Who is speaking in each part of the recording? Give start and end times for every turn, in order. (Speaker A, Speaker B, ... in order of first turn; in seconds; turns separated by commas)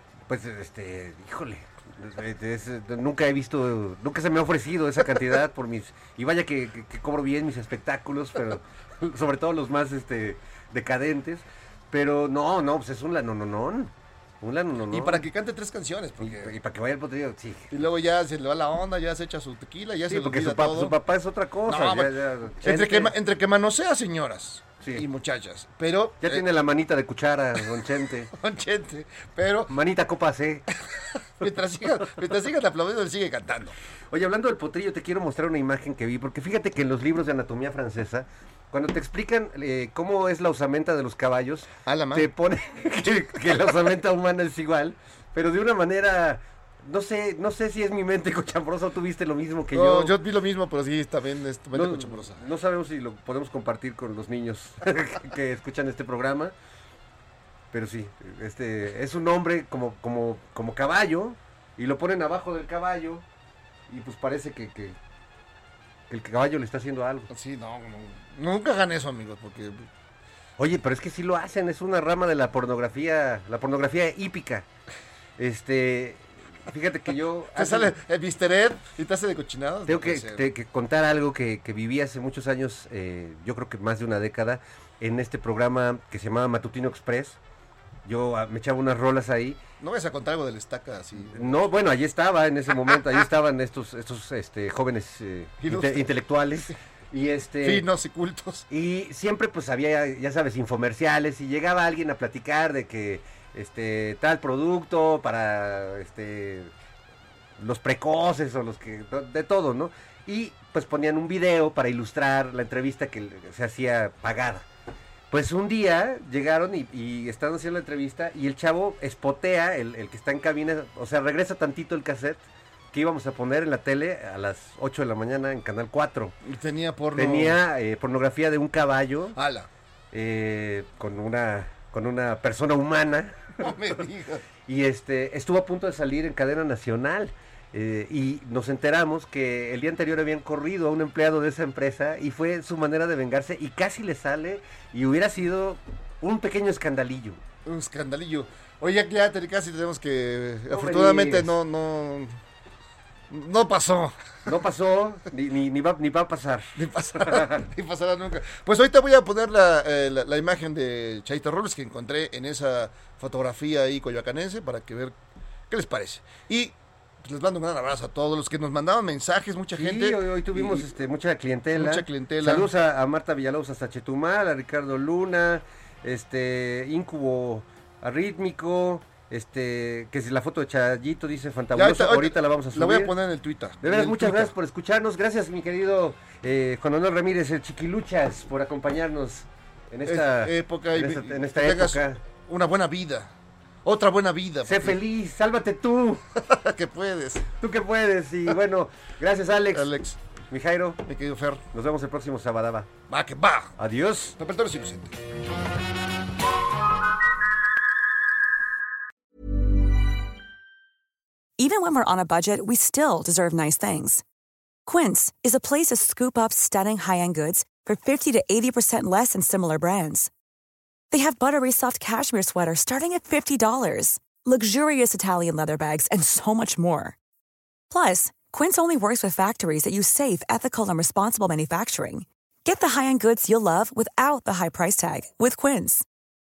Speaker A: 0.3-15.3, Speaker B: 14.9-16.6, Speaker A: 16.2-17.7, Speaker B: 17.7-21.0, Speaker A: 20.1-23.1, Speaker B: 21.6-26.4, Speaker A: 26.2-28.3, Speaker B: 27.6-29.7, Speaker A: 29.7-30.7, Speaker B: 31.4-33.8, Speaker A: 34.1-50.1, Speaker B: 41.9-42.3, Speaker B: 49.7-52.5, Speaker A: 51.7-56.5, Speaker A: 57.7-63.2, Speaker A: 63.9-65.0, Speaker A: 66.1-67.3, Speaker B: 67.3-69.9, Speaker A: 70.6-74.7, Speaker A: 75.4-78.0, Speaker B: 77.5-80.5, Speaker A: 79.9-87.4, Speaker A: 88.1-89.6, Speaker B: 89.8-91.7, Speaker A: 91.3-97.9, Speaker B: 95.6-96.2, Speaker B: 97.6-98.7, Speaker A: 98.7-106.7, Speaker A: 107.6-114.7, Speaker A: 115.3-122.4, Speaker A: 122.9-126.3, Speaker B: 126.4-127.6, Speaker A: 127.2-129.4, Speaker B: 129.3-129.7, Speaker A: 130.1-133.6, Speaker B: 133.6-134.4, Speaker A: 134.7-147.4, Speaker B: 147.7-152.4, Speaker A: 150.7-151.5, Speaker B: 153.3-154.5, Speaker A: 154.5-157.6, Speaker B: 156.8-165.2, Speaker B: 165.7-170.9, Speaker A: 169.8-183.1, Speaker B: 171.7-172.7, Speaker B: 181.7-184.6, Speaker A: 183.8-192.2, Speaker B: 190.0-193.3, Speaker B: 193.8-195.0, Speaker A: 194.6-196.2, Speaker B: 196.3-197.5, Speaker A: 197.6-199.9, Speaker B: 199.7-200.2, Speaker A: 200.5-201.0, Speaker B: 201.0-201.6, Speaker A: 201.7-202.9, Speaker B: 203.1-203.8, Speaker A: 203.8-204.4, Speaker B: 204.4-205.2, Speaker C: 211.6-214.2, Speaker C: 214.9-220.3, Speaker C: 221.1-227.2, Speaker C: 227.9-236.1